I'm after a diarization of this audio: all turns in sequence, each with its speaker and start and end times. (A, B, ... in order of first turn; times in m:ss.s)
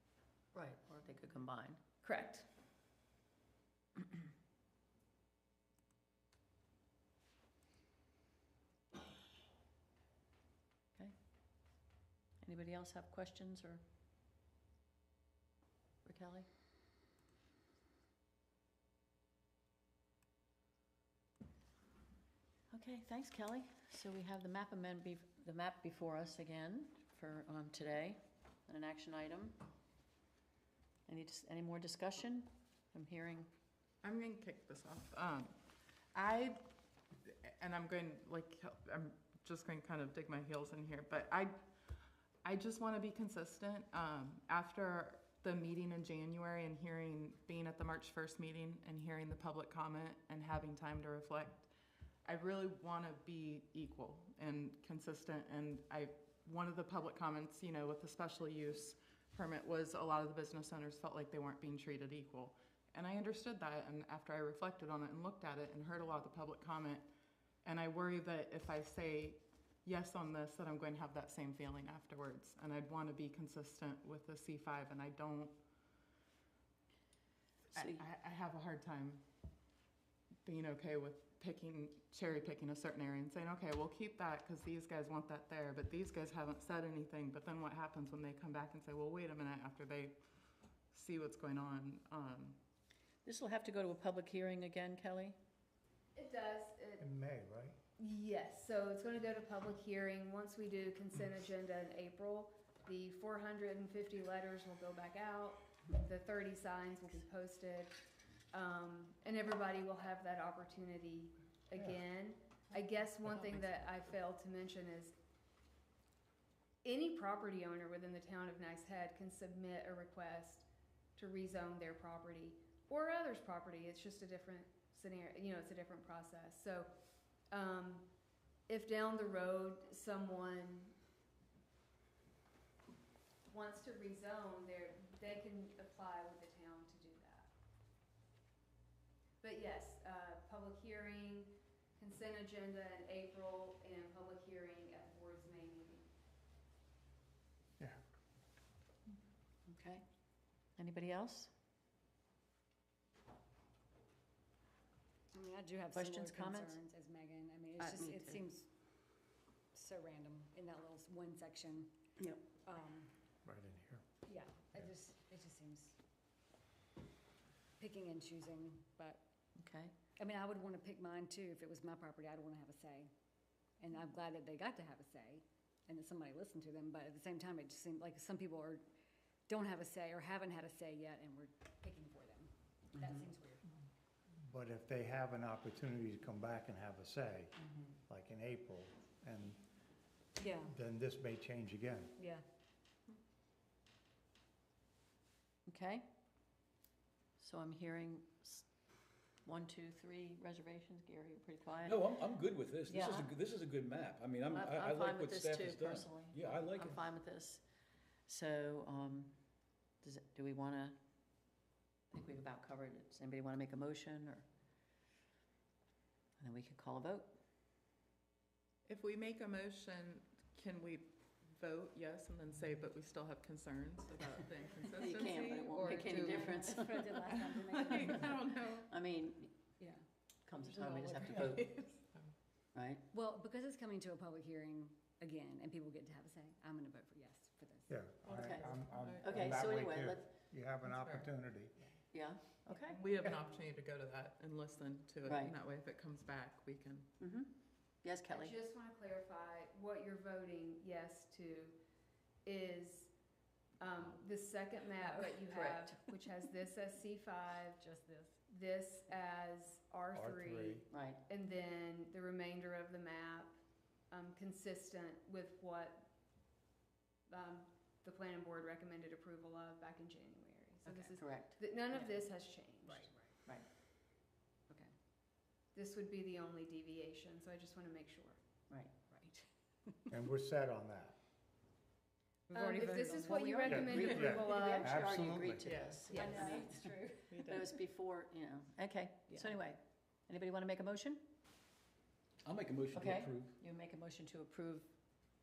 0:00.5-0:01.8 A
0:02.0-0:02.4 B
0:12.4-0:13.8 A
0:16.0-0:16.5 A
0:22.7-0:29.6 A
0:31.1-0:33.5 A
0:34.0-0:35.5 C
0:36.1-0:36.6 C
0:37.2-0:41.6 C
0:42.4-0:51.7 C
0:52.2-1:07.1 C
1:07.6-1:15.6 C
1:17.7-1:19.2 C
1:20.4-1:30.1 C
1:30.9-1:32.6 C
1:33.2-1:35.4 A
1:36.1-1:37.0 B
1:37.0-1:37.8 D
1:38.0-1:55.1 B
1:53.3-1:53.7 C
1:56.8-2:06.9 B
2:07.5-2:08.1 B
2:08.7-2:10.9 B
2:13.5-2:17.5 B
2:19.4-2:26.0 B
2:29.7-2:30.0 A
2:30.8-2:31.5 A
2:35.3-2:38.7 E
2:35.9-2:36.8 A
2:37.8-2:38.4 A
2:39.7-2:41.9 E
2:42.2-2:42.4 A
2:42.6-2:43.1 E
2:43.4-2:44.0 D
2:44.2-2:46.0 E
2:47.8-2:49.2 E
2:49.6-2:49.9 A
2:50.2-2:53.1 E
2:53.8-2:58.8 E
2:59.5-3:03.6 E
3:04.4-3:09.6 D
3:10.4-3:10.7 E
3:10.6-3:12.1 D
3:12.2-3:12.4 E
3:15.7-3:16.1 A
3:17.4-3:18.7 A
3:19.4-3:22.1 A
3:21.8-3:27.1 F
3:22.9-3:23.3 A
3:24.5-3:27.6 A
3:28.3-3:29.4 A
3:30.0-3:31.0 A
3:32.1-3:34.4 A
3:36.4-3:37.4 A
3:38.8-3:48.9 C
3:45.0-3:47.1 A
3:45.8-3:48.4 E
3:48.8-3:49.5 A
3:50.4-3:51.7 A
3:50.6-3:52.3 C
3:52.7-3:53.0 A
3:53.1-3:58.3 E
3:57.9-4:01.8 D
3:58.2-3:59.8 C
3:58.4-3:58.6 A
3:59.2-4:00.3 A
4:00.8-4:01.3 C
4:02.1-4:03.0 A
4:02.7-4:07.1 C
4:05.2-4:05.5 A
4:07.2-4:08.6 A
4:08.3-4:11.8 B
4:12.4-4:13.1 B
4:13.8-4:17.8 B
4:15.0-4:15.4 E
4:15.5-4:16.0 A
4:17.8-4:18.4 E
4:18.5-4:23.6 B
4:20.1-4:20.8 D
4:20.9-4:21.2 A
4:24.1-4:26.1 B
4:27.3-4:33.1 B
4:31.0-4:31.6 A
4:31.9-4:32.3 E
4:32.8-4:33.3 E
4:35.7-4:38.4 B
4:39.1-4:40.1 E
4:40.1-4:41.1 D
4:42.5-4:44.4 E
4:42.5-4:45.0 B
4:43.7-4:45.7 D
4:43.8-4:51.3 A
4:45.7-4:46.4 C
4:46.1-4:47.3 E
4:46.1-4:46.6 B
4:47.3-4:47.7 C
4:49.3-4:49.5 E
4:52.4-4:53.6 F
4:52.9-4:54.9 A